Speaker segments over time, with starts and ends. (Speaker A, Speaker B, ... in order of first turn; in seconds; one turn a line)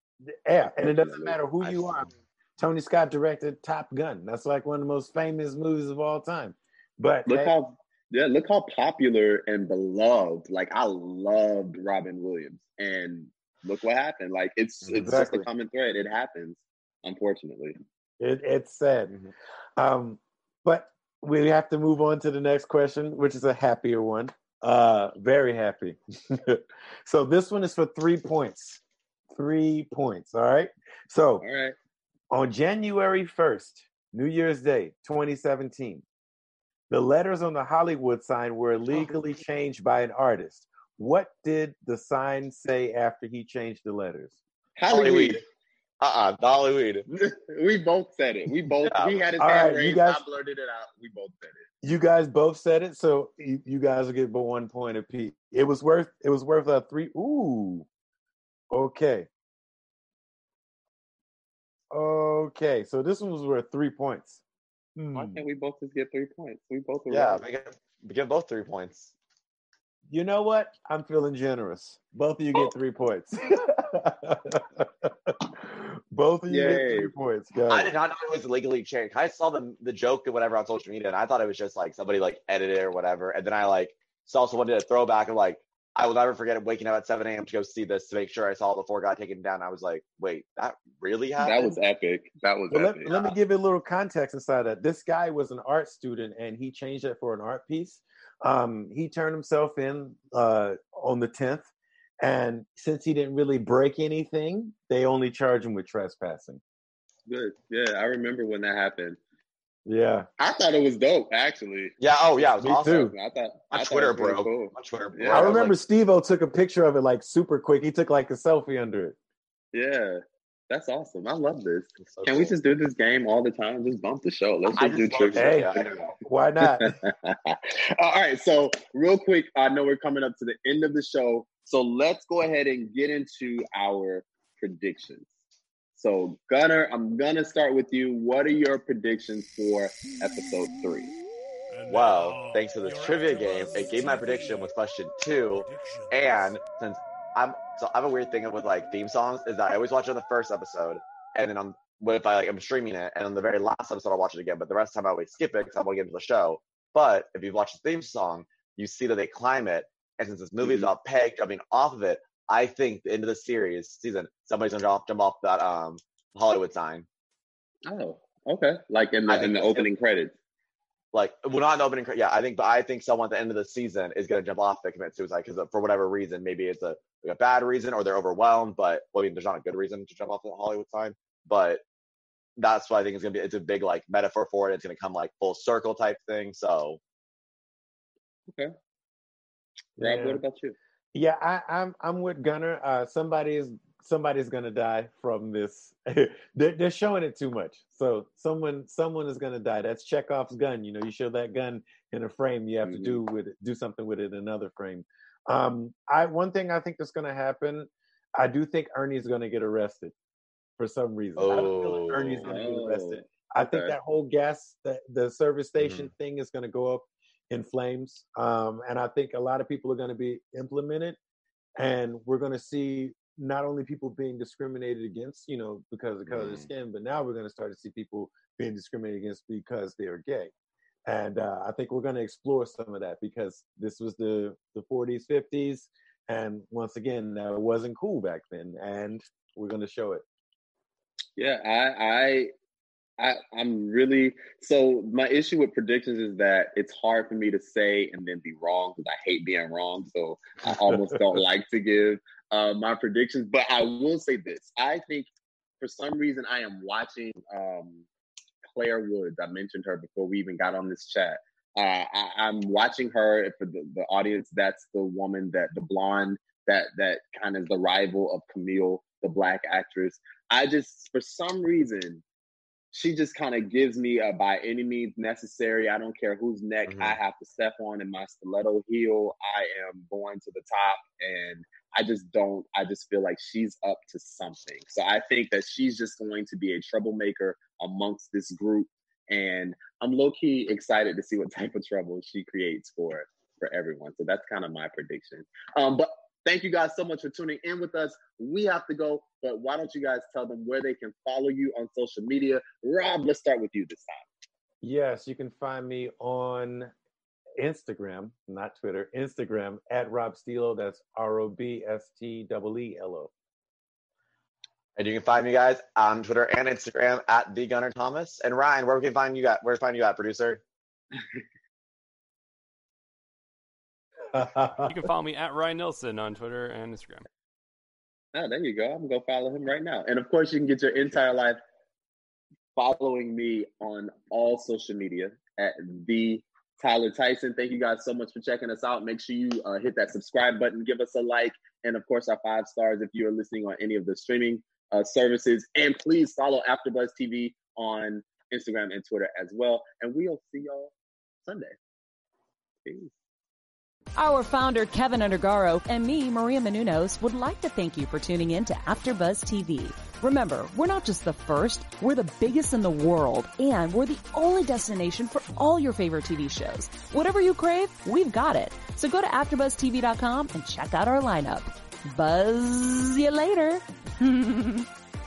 Speaker A: 0.3-7.5
Speaker B: 0.8-1.4
Speaker B: 7.3-17.8
Speaker A: 14.9-15.5
Speaker A: 18.2-19.1
Speaker A: 19.8-28.8
Speaker A: 29.3-31.4
Speaker B: 31.4-31.8
Speaker A: 32.3-36.0
Speaker A: 36.9-44.4
Speaker B: 44.8-45.4
Speaker C: 44.9-45.4
Speaker C: 46.0-47.1
Speaker B: 47.1-51.7
Speaker C: 48.9-49.3
Speaker A: 49.4-50.2
Speaker A: 51.8-57.9
Speaker A: 58.7-59.3
Speaker A: 61.9-64.4
Speaker A: 65.0-65.4
Speaker B: 65.1-67.4
Speaker C: 67.1-69.1
Speaker A: 70.1-77.9
Speaker B: 76.5-77.1
Speaker C: 77.7-91.8
Speaker B: 91.4-93.3
Speaker A: 92.7-101.7
Speaker A: 102.2-106.6
Speaker B: 107.3-109.2
Speaker A: 109.9-110.3
Speaker B: 110.4-112.0
Speaker C: 112.0-113.1
Speaker A: 112.6-113.1
Speaker B: 113.0-115.7
Speaker C: 113.7-115.8
Speaker A: 115.3-119.2
Speaker B: 119.7-126.1
Speaker C: 122.0-122.5
Speaker C: 124.7-126.1
Speaker A: 125.3-126.9
Speaker B: 126.7-135.3
Speaker B: 135.9-141.1
Speaker C: 141.9-167.1
Speaker B: 160.6-160.9
Speaker B: 167.9-170.3
Speaker C: 169.3-169.9
Speaker C: 171.1-181.8
Speaker C: 182.6-187.0
Speaker A: 190.0-190.4
Speaker B: 190.0-190.8
Speaker A: 191.1-210.1
Speaker B: 202.8-203.2
Speaker A: 210.8-221.2
Speaker C: 211.4-212.5
Speaker B: 212.4-213.9
Speaker C: 215.8-216.1
Speaker A: 221.8-230.5
Speaker C: 226.3-226.7
Speaker A: 231.1-240.2
Speaker B: 241.4-242.5
Speaker B: 243.2-255.3
Speaker B: 255.8-258.1
Speaker B: 258.7-272.2
Speaker B: 272.9-304.3
Speaker C: 276.9-277.2
Speaker A: 304.8-306.9
Speaker A: 307.6-313.3
Speaker C: 315.0-320.6
Speaker A: 324.3-325.1
Speaker D: 324.8-327.3
Speaker B: 328.3-331.6
Speaker B: 332.8-350.9
Speaker B: 351.4-351.8
Speaker B: 352.8-353.1
Speaker E: 354.2-374.9